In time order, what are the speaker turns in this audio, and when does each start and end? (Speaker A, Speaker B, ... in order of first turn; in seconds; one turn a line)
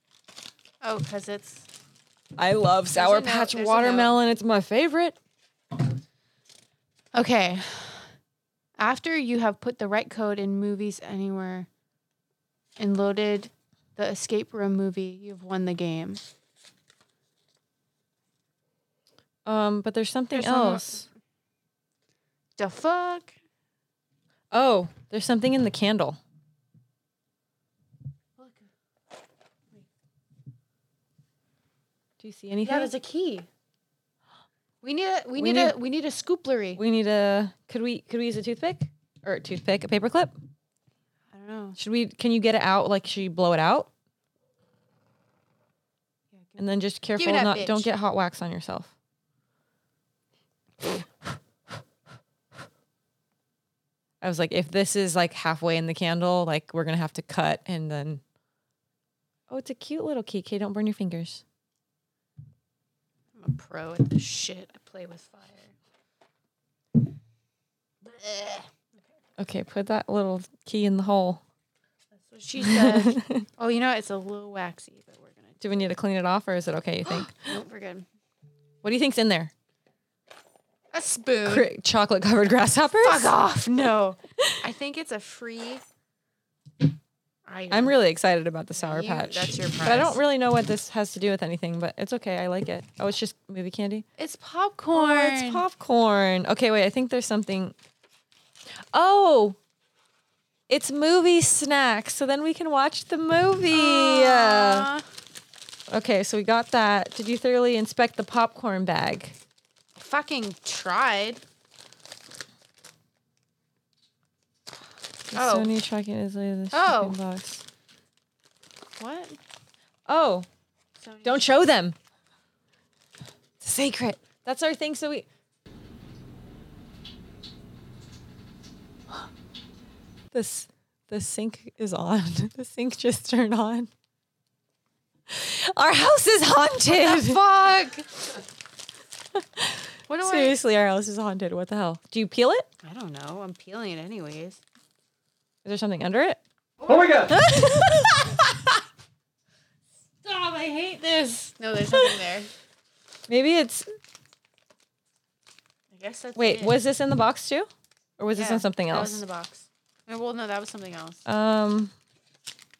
Speaker A: 0.8-1.7
Speaker B: 2.4-5.2
Speaker A: 2.9-4.2
Speaker A: 7.1-8.1
Speaker A: 8.8-11.7
Speaker A: 12.8-16.2
Speaker B: 19.4-21.1
Speaker A: 20.3-21.1
Speaker A: 22.6-23.3
Speaker B: 24.5-26.2
Speaker A: 28.4-28.7
Speaker B: 32.2-32.9
Speaker A: 32.6-33.5
Speaker A: 34.8-36.8
Speaker B: 35.4-35.8
Speaker B: 36.8-40.3
Speaker A: 41.3-41.8
Speaker B: 41.8-43.9
Speaker A: 46.3-47.9
Speaker B: 46.6-48.9
Speaker B: 54.2-58.2
Speaker B: 59.5-61.4
Speaker A: 63.4-65.7
Speaker A: 68.0-69.0
Speaker B: 69.4-71.4
Speaker A: 72.1-75.7
Speaker B: 72.6-73.5
Speaker B: 75.6-77.6
Speaker A: 77.0-78.0
Speaker B: 78.8-79.5
Speaker A: 80.9-81.7
Speaker B: 81.4-83.3
Speaker A: 83.0-85.8
Speaker A: 87.5-87.9
Speaker B: 87.7-94.0
Speaker A: 88.7-90.2
Speaker A: 94.2-95.6
Speaker B: 94.9-97.7
Speaker B: 98.9-99.6
Speaker B: 100.7-104.9
Speaker A: 103.7-105.0
Speaker B: 105.9-109.3
Speaker A: 110.0-111.4
Speaker B: 115.3-117.6
Speaker A: 115.3-115.7
Speaker A: 116.7-117.2
Speaker A: 119.0-119.4
Speaker B: 120.1-120.5
Speaker A: 121.0-121.5
Speaker B: 121.2-122.0
Speaker B: 123.6-125.3
Speaker B: 130.3-133.9
Speaker B: 135.3-137.6
Speaker A: 136.8-138.1
Speaker B: 139.3-142.7
Speaker A: 140.1-140.6
Speaker A: 142.8-144.6
Speaker B: 145.6-146.4
Speaker B: 147.2-148.7
Speaker A: 150.2-152.5
Speaker B: 153.3-153.9
Speaker A: 155.9-156.8
Speaker B: 156.3-159.2
Speaker A: 158.3-161.2
Speaker B: 161.2-161.9